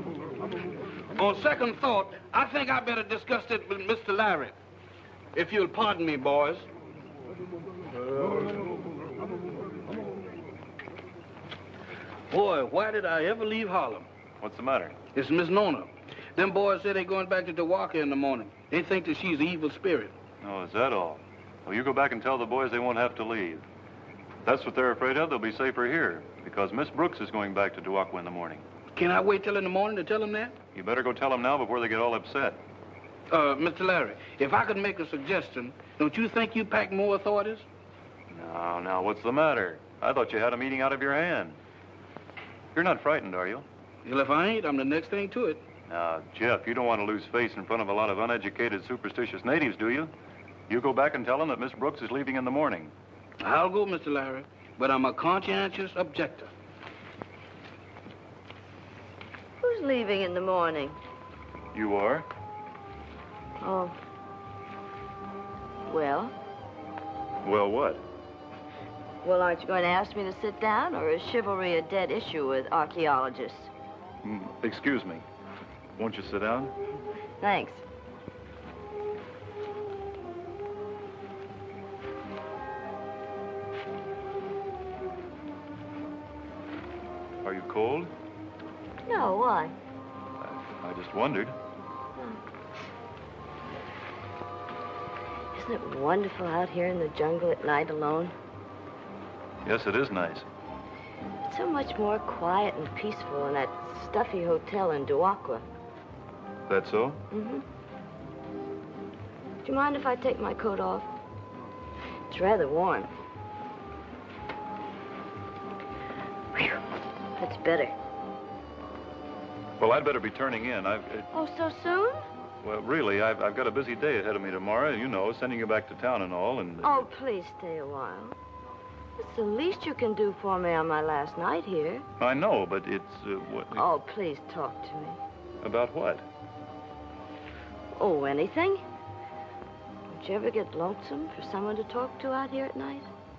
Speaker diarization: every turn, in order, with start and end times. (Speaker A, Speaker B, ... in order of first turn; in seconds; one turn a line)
Speaker A: 1.1-4.5
Speaker A: 5.3-6.7
Speaker A: 12.3-14.1
Speaker B: 14.4-14.9
Speaker A: 15.1-20.1
Speaker B: 20.4-23.6
Speaker B: 24.4-28.6
Speaker A: 28.9-30.6
Speaker B: 30.7-32.6
Speaker A: 33.3-37.6
Speaker B: 38.3-41.6
Speaker B: 42.7-43.6
Speaker A: 44.0-45.6
Speaker B: 45.9-50.1
Speaker B: 50.7-52.9
Speaker A: 53.4-56.5
Speaker C: 59.6-61.0
Speaker B: 61.7-62.2
Speaker C: 63.6-64.0
Speaker C: 65.9-66.3
Speaker B: 67.4-68.0
Speaker C: 69.2-73.7
Speaker B: 74.2-75.2
Speaker B: 76.0-76.7
Speaker C: 77.4-77.8
Speaker B: 87.4-88.1
Speaker C: 89.0-89.7
Speaker B: 90.4-91.5
Speaker C: 95.5-98.3
Speaker B: 99.6-100.5
Speaker C: 101.4-105.7
Speaker B: 106.7-107.2
Speaker C: 107.3-107.6
Speaker C: 109.6-111.1
Speaker C: 112.3-113.1
Speaker C: 117.4-118.0
Speaker B: 119.8-121.3
Speaker C: 121.3-122.2
Speaker B: 122.6-127.1
Speaker C: 126.8-128.3
Speaker C: 129.2-132.0
Speaker B: 132.2-133.8
Speaker C: 133.7-135.2
Speaker B: 135.6-136.2
Speaker C: 138.0-138.8
Speaker C: 140.1-143.1